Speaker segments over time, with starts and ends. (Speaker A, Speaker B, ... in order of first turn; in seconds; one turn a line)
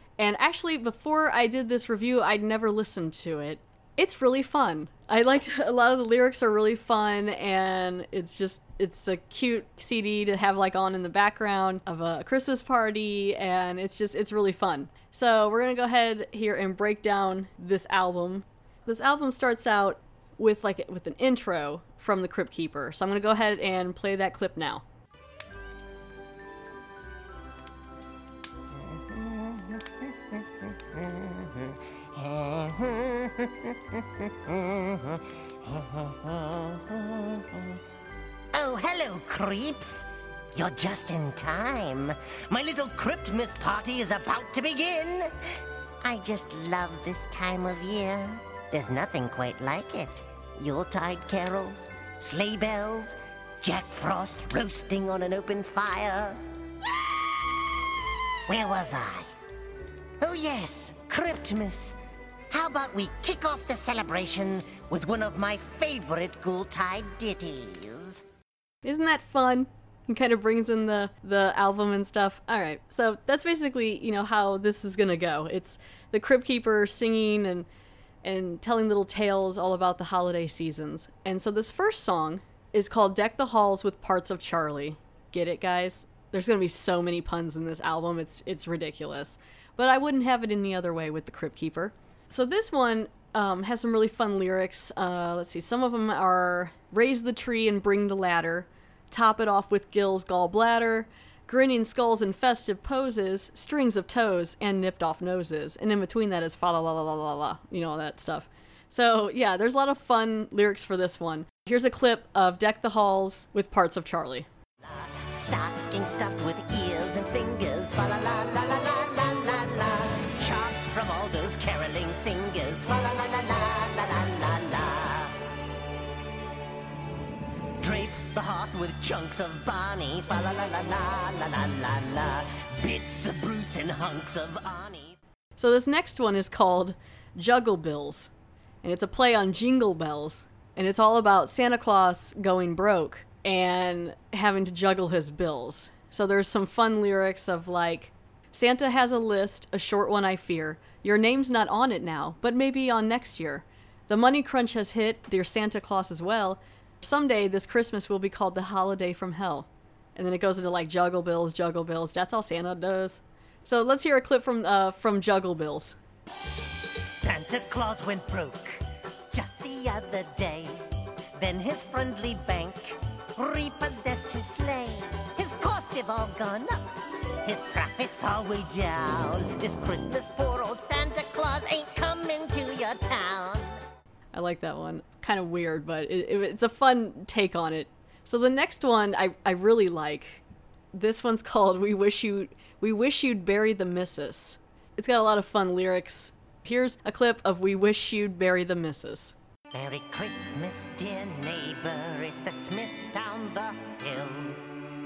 Speaker A: 0.2-24.8
Speaker B: 28.7-37.8
Speaker B: 38.5-56.4
Speaker B: 58.5-59.3
Speaker B: 60.2-62.0
Speaker B: 62.5-68.2
Speaker A: 68.8-77.7
Speaker A: 78.2-114.5
Speaker B: 114.8-125.4
Speaker B: 127.8-135.2
Speaker A: 135.6-138.3
Speaker A: 138.8-166.0
Speaker B: 167.1-170.8
Speaker B: 171.4-183.8
Speaker A: 184.3-199.3
Speaker B: 199.7-204.7